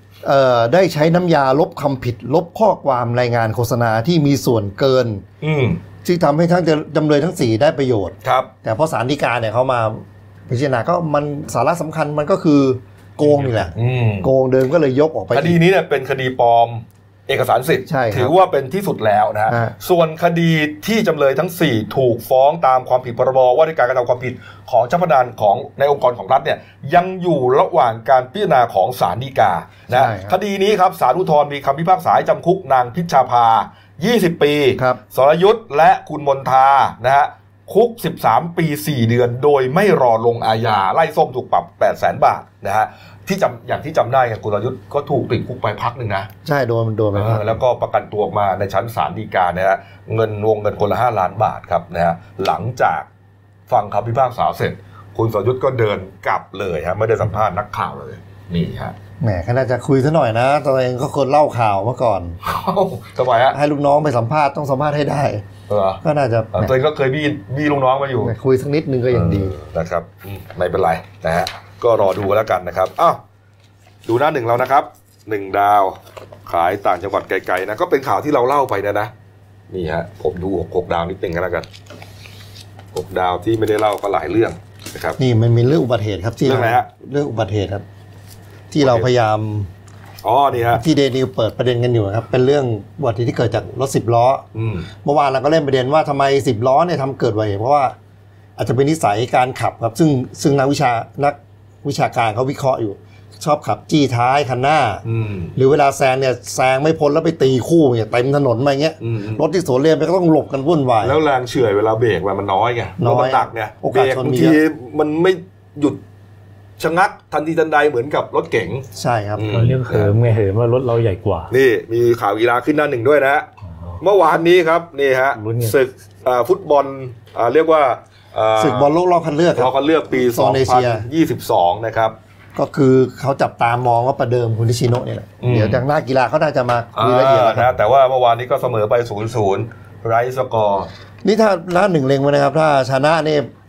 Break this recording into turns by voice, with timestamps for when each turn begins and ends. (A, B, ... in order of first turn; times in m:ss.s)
0:00.2-0:05.2 A
0:05.4-0:05.8 B
0:06.0-0:15.6 A
0:08.2-0:08.5 B
0:13.4-0:13.7 C
0:13.7-0:14.3 B
0:15.3-0:46.3 B
0:17.9-0:18.3 A
0:19.5-0:19.7 A
0:29.9-0:30.4 A
0:46.4-0:47.6 A
0:47.1-0:53.1 B
0:53.7-0:58.9 B
0:59.2-1:02.4 A
1:02.4-1:03.6 B
1:03.5-1:05.4 A
1:05.7-1:06.0 B
1:06.0-1:06.7 A
1:06.5-1:08.3 B
1:08.2-1:09.6 A
1:09.1-1:13.2 B
1:14.0-1:19.1 B
1:19.7-1:21.7 B
1:22.9-1:25.2 B
1:25.2-1:27.8 A
1:26.4-1:26.8 B
1:28.7-1:29.7 A
1:28.8-1:29.1 B
1:30.2-1:30.8 B
1:30.6-1:34.4 A
1:34.5-1:34.9 B
1:35.0-1:38.0 A
1:38.6-1:51.2 A
1:45.0-1:45.5 B
1:49.0-1:49.4 B
1:51.0-1:56.0 B
1:53.0-1:54.6 A
1:56.8-2:00.1 B
1:59.0-1:59.5 A
1:59.5-2:01.5 C
2:01.5-2:03.5 B
2:04.0-2:08.9 B
2:05.4-2:05.8 C
2:08.6-2:11.0 A
2:09.5-2:12.2 B
2:12.5-2:17.7 A
2:15.4-2:15.8 B
2:16.9-2:20.9 B
2:21.2-2:23.5 A